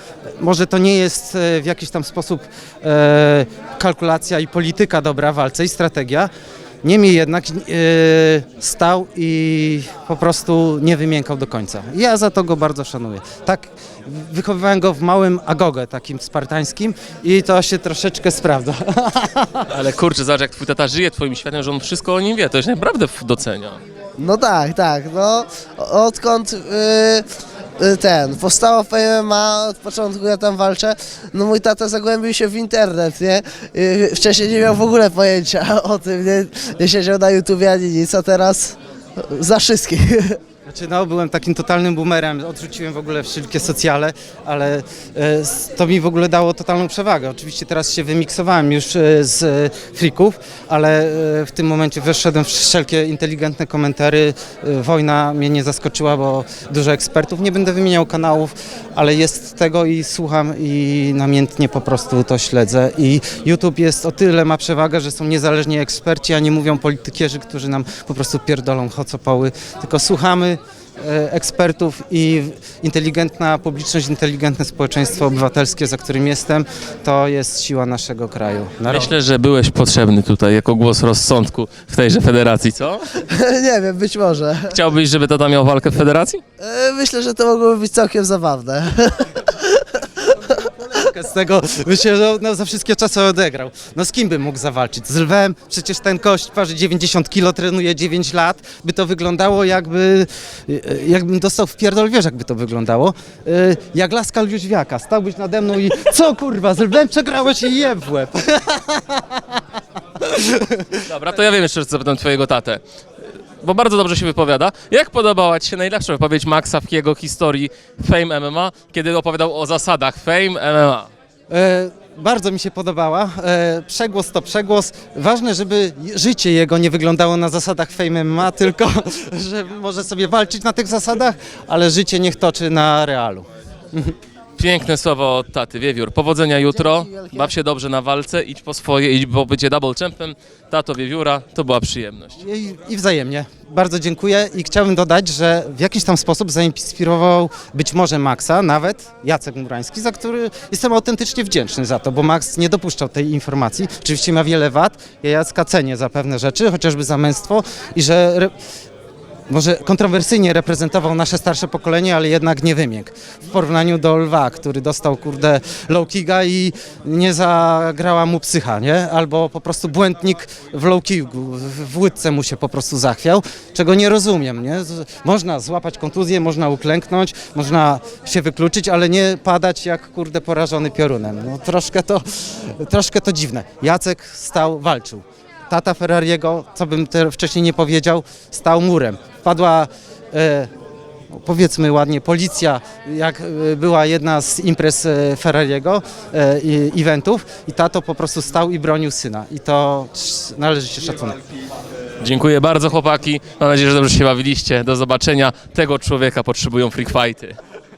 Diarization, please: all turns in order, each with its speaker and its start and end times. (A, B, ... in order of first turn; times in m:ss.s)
0:00.4-0:06.3 A
0:06.8-0:19.7 A
0:19.7-0:23.8 B
0:24.2-0:27.2 C
0:27.8-0:40.4 C
0:40.6-1:19.1 A
1:18.9-1:23.1 B
1:23.2-1:24.8 C
1:24.7-1:26.4 B
1:26.6-1:30.1 C
1:30.3-1:49.6 A
1:50.2-1:51.0 A
1:51.0-1:52.8 B
1:53.6-2:01.1 B
2:01.5-2:14.1 A
2:14.6-2:22.4 B
2:16.7-2:17.5 C
2:22.4-2:38.5 A
2:39.5-3:10.7 A
3:11.3-3:21.4 A
3:22.2-3:27.6 B